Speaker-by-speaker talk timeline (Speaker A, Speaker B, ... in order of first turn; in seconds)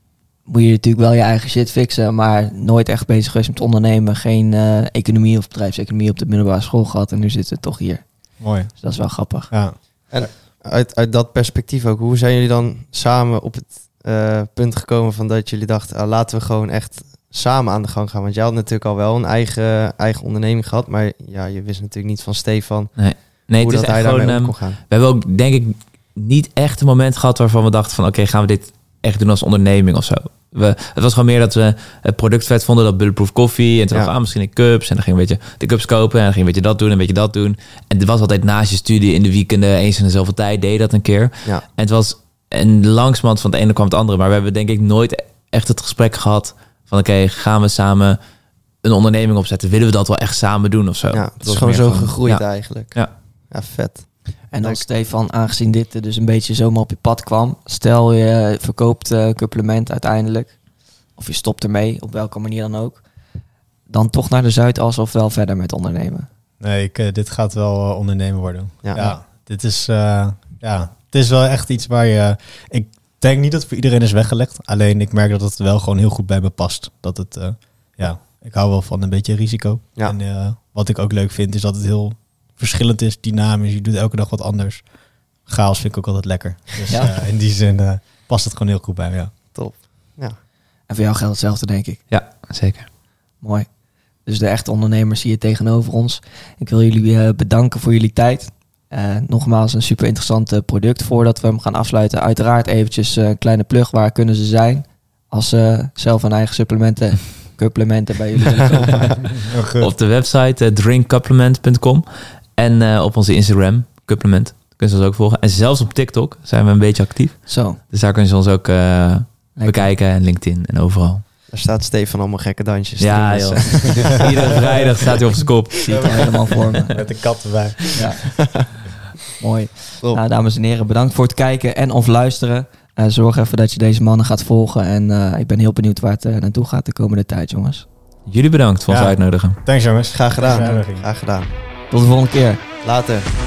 Speaker A: 0.5-9.8, 54.5-63.0, 63.9-66.3, 90.9-92.0, 93.4-93.7, 94.2-109.3, 117.5-117.8, 119.5-119.9, 125.8-127.1, 128.0-128.3, 129.4-137.8, 141.9-142.6
Speaker B: 8.4-10.3, 66.6-84.9, 85.4-89.3, 109.3-109.9, 125.9-128.3, 138.9-141.1
Speaker C: 10.1-24.8, 51.1-54.8, 68.8-69.1, 89.5-90.4, 121.5-125.5, 128.0-128.7, 140.1-141.6, 142.8-143.2
Speaker D: 23.0-48.2, 48.8-53.1, 92.1-92.9, 109.8-121.2, 123.0-126.4, 138.2-139.6